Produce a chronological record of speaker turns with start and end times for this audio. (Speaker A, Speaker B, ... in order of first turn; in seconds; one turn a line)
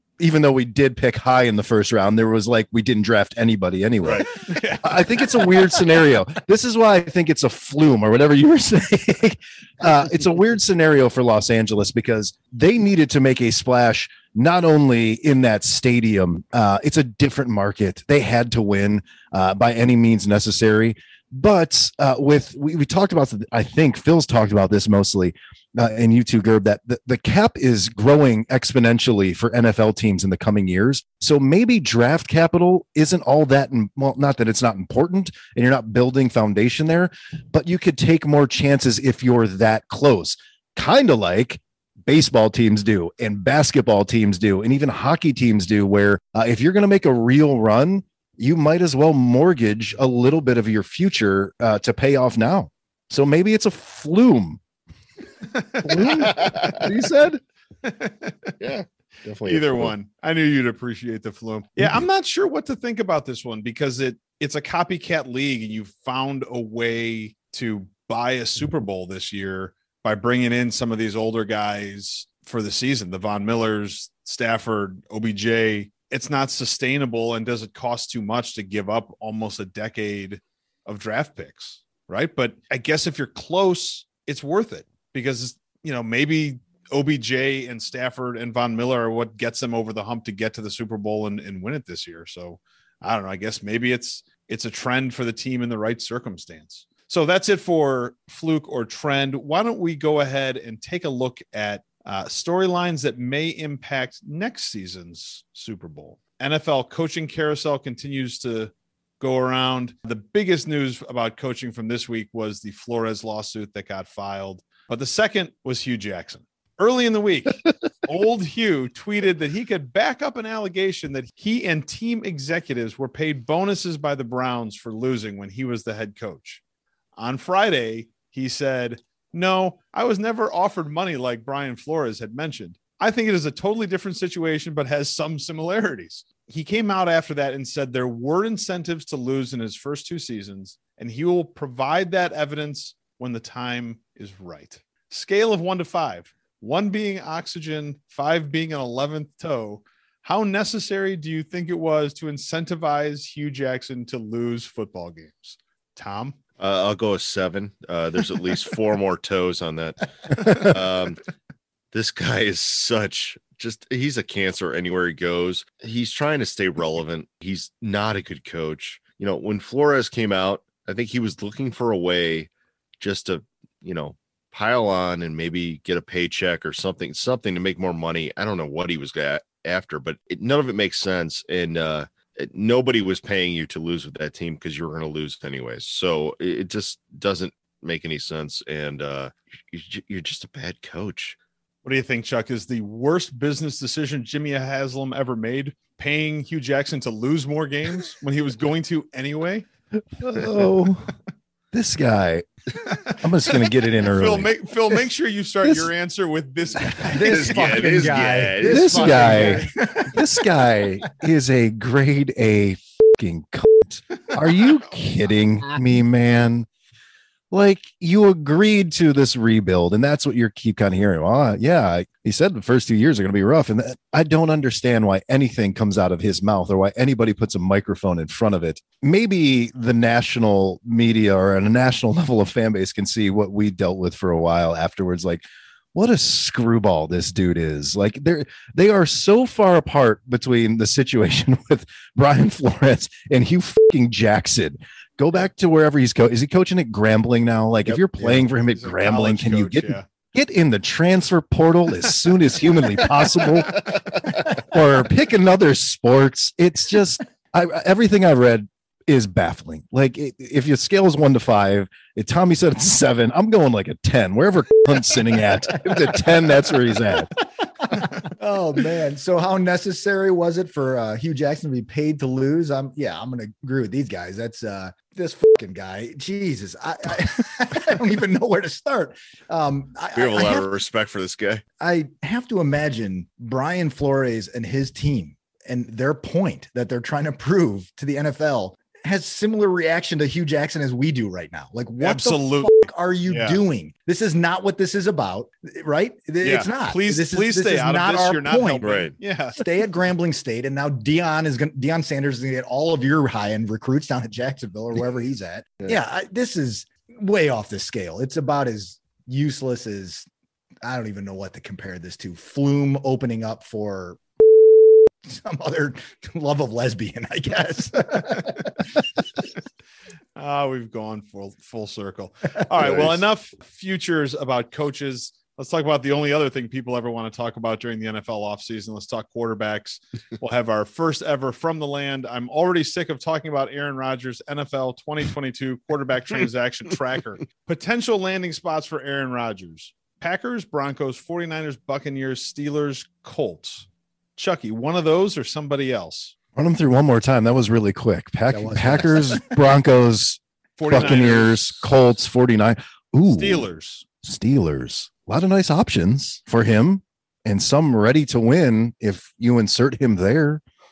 Speaker A: 0.2-54.6
Speaker B: 4.0-5.5
Speaker B: 55.5-56.3
Speaker A: 55.8-57.4
Speaker C: 56.3-56.8
Speaker B: 57.8-58.5
Speaker C: 58.6-59.9
Speaker B: 59.4-126.6
Speaker B: 127.2-156.4
Speaker C: 156.6-161.2
Speaker C: 161.9-191.4
Speaker B: 191.8-199.7
Speaker A: 200.2-201.1
Speaker A: 201.7-202.4
Speaker B: 202.8-207.6
Speaker A: 203.1-204.5
Speaker A: 205.6-205.9
Speaker D: 206.8-210.4
Speaker C: 207.2-209.7
Speaker A: 208.6-216.7
Speaker A: 217.5-235.4
Speaker A: 235.9-267.3
Speaker B: 248.1-250.1
Speaker D: 265.8-266.3
Speaker D: 267.9-280.7
Speaker C: 280.1-281.6
Speaker D: 281.8-298.9
Speaker B: 292.0-293.6
Speaker B: 296.4-299.7
Speaker C: 298.8-299.1
Speaker D: 299.6-310.3
Speaker D: 310.8-314.2
Speaker D: 315.2-319.0
Speaker B: 320.4-346.3
Speaker C: 322.8-323.2
Speaker A: 346.6-353.7
Speaker D: 348.5-349.5
Speaker B: 350.8-351.9
Speaker B: 353.3-354.0
Speaker A: 354.2-360.6